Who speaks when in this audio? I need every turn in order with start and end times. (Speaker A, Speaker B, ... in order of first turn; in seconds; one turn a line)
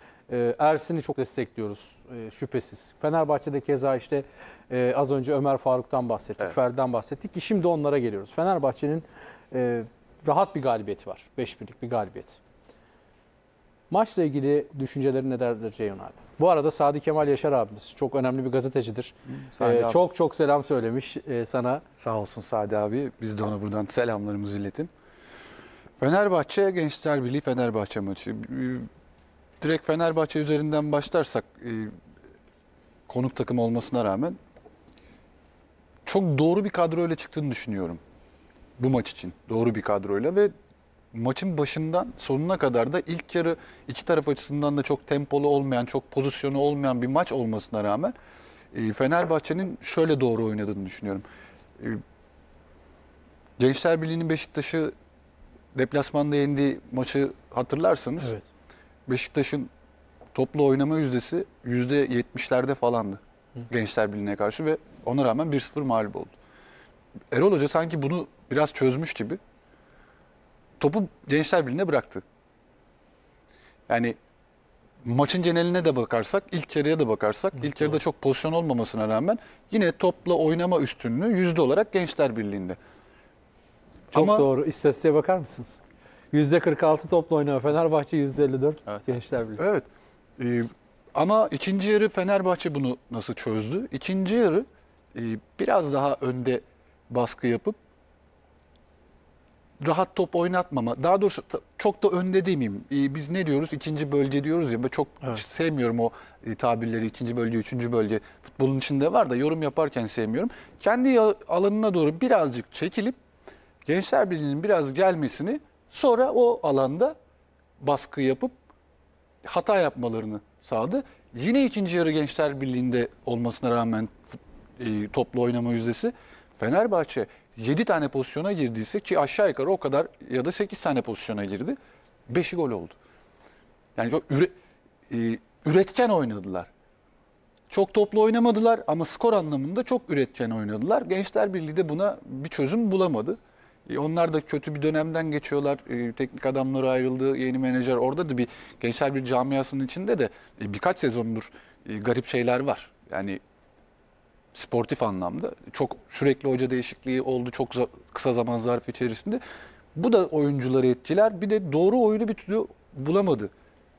Speaker A: 0.3-12.4
Speaker A: 13.9-21.8
Speaker B: 19.5-20.0
Speaker B: 22.0-24.9
Speaker B: 26.0-28.9
Speaker B: 29.6-31.9
Speaker B: 33.1-34.4
Speaker B: 36.1-38.0
Speaker B: 38.8-40.5
Speaker B: 41.1-48.1
Speaker B: 48.7-51.2
Speaker B: 53.6-54.9
Speaker B: 55.7-58.4
Speaker A: 58.2-58.5
Speaker B: 59.1-59.7
Speaker B: 60.3-66.3
Speaker B: 67.3-69.4
Speaker B: 70.8-72.2
Speaker B: 73.9-74.2
Speaker B: 75.0-82.8
Speaker A: 84.1-85.8
Speaker B: 84.1-84.5
Speaker A: 86.3-89.6
Speaker B: 89.6-89.9
Speaker B: 90.4-97.8
Speaker B: 99.8-113.2
Speaker B: 113.9-117.2
Speaker B: 117.8-118.5
Speaker B: 119.4-131.8
Speaker B: 132.3-133.0
Speaker B: 134.0-134.5
Speaker B: 135.1-136.7
Speaker B: 137.7-153.4
Speaker B: 154.5-159.4
Speaker B: 159.9-163.5